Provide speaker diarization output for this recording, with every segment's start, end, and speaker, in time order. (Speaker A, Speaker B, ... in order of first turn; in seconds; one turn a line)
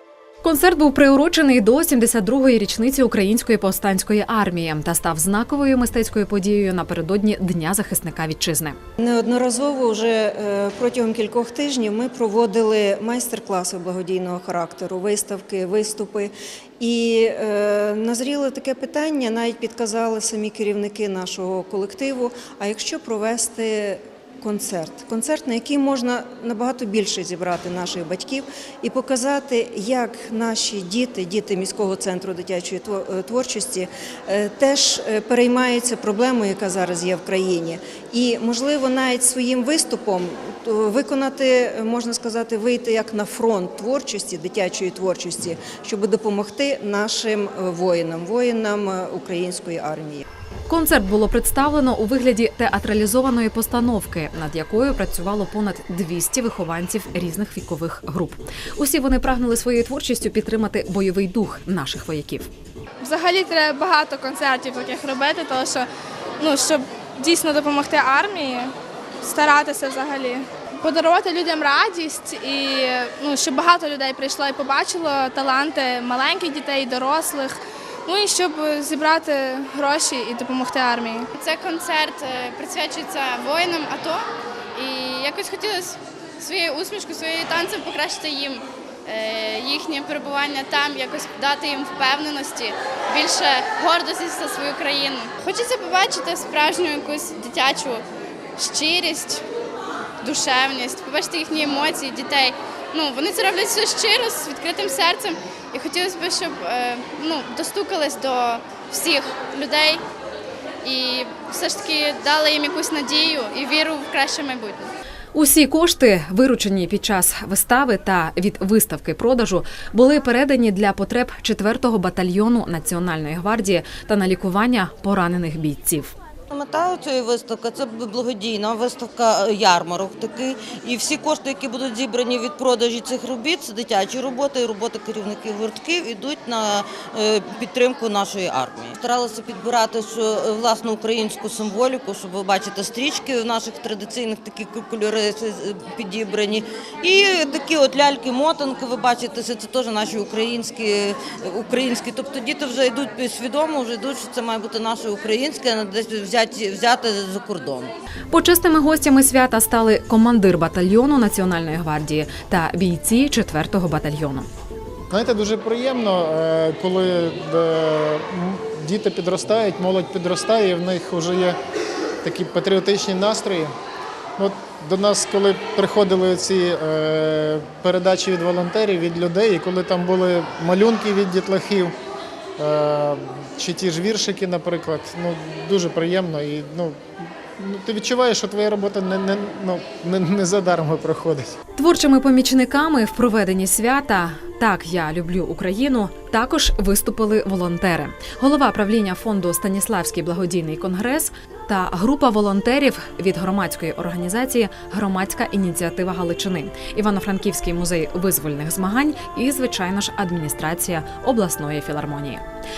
Speaker A: 0.4-8.8
Speaker B: 9.0-50.2
Speaker A: 50.7-62.5
Speaker C: 63.0-65.9
Speaker C: 66.4-81.3
Speaker D: 81.4-98.0
Speaker D: 98.6-99.4
Speaker D: 100.2-110.0
Speaker D: 110.8-114.9
Speaker A: 115.3-126.2
Speaker E: 126.5-157.9
Speaker A: 158.3-164.5
Speaker F: 165.1-171.6
Speaker F: 172.2-173.7
Speaker F: 174.4-181.9
Speaker F: 182.6-187.0
Speaker F: 187.6-191.6
Speaker A: 191.8-212.4